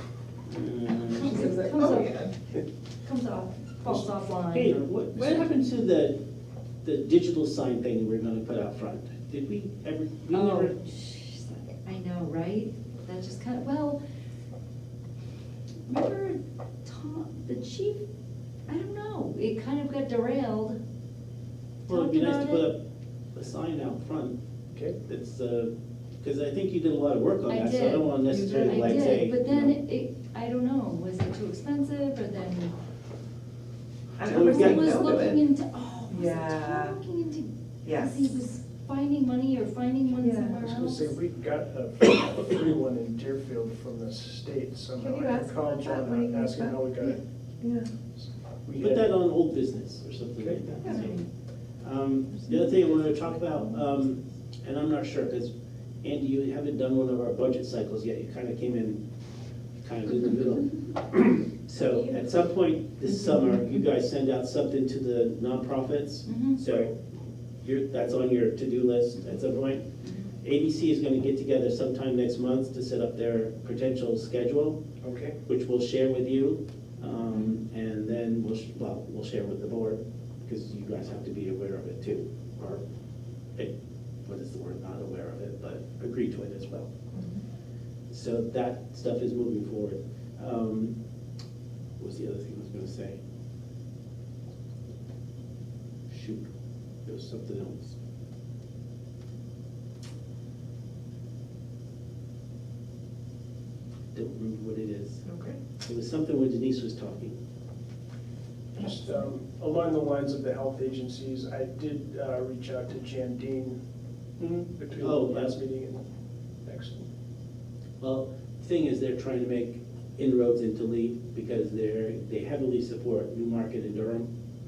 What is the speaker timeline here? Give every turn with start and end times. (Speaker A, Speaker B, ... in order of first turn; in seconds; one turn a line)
Speaker A: 0.5-1.5
Speaker B: 1.1-2.2
Speaker C: 1.2-2.3
Speaker B: 3.0-5.4
Speaker A: 3.9-6.2
Speaker A: 6.8-10.8
Speaker B: 10.3-14.0
Speaker B: 15.9-18.0
Speaker B: 18.7-20.8
Speaker B: 21.9-22.6
Speaker A: 21.9-22.8
Speaker A: 23.3-24.4
Speaker D: 24.7-25.0
Speaker A: 25.0-29.7
Speaker B: 27.5-32.7
Speaker C: 28.3-29.1
Speaker C: 34.2-35.4
Speaker A: 34.2-35.0
Speaker B: 34.3-41.1
Speaker C: 36.1-37.0
Speaker C: 37.8-38.4
Speaker C: 40.2-40.6
Speaker D: 40.6-47.2
Speaker C: 45.0-46.8
Speaker C: 47.6-47.9
Speaker D: 48.2-49.1
Speaker A: 48.8-51.2
Speaker C: 50.8-51.1
Speaker B: 50.9-51.2
Speaker A: 51.8-55.5
Speaker C: 52.8-53.8
Speaker A: 56.0-59.0
Speaker A: 59.8-66.9
Speaker B: 66.2-66.6
Speaker A: 67.6-69.9
Speaker A: 70.4-74.8
Speaker D: 75.0-75.4
Speaker A: 75.5-82.8
Speaker A: 84.2-86.9
Speaker A: 88.1-91.0
Speaker A: 92.0-93.2
Speaker A: 96.1-96.5
Speaker A: 97.0-98.0
Speaker A: 104.1-105.2
Speaker C: 105.2-105.6
Speaker A: 105.8-107.3
Speaker D: 108.7-113.8
Speaker A: 114.4-115.5
Speaker D: 114.7-116.0
Speaker D: 116.6-117.0
Speaker A: 118.0-124.3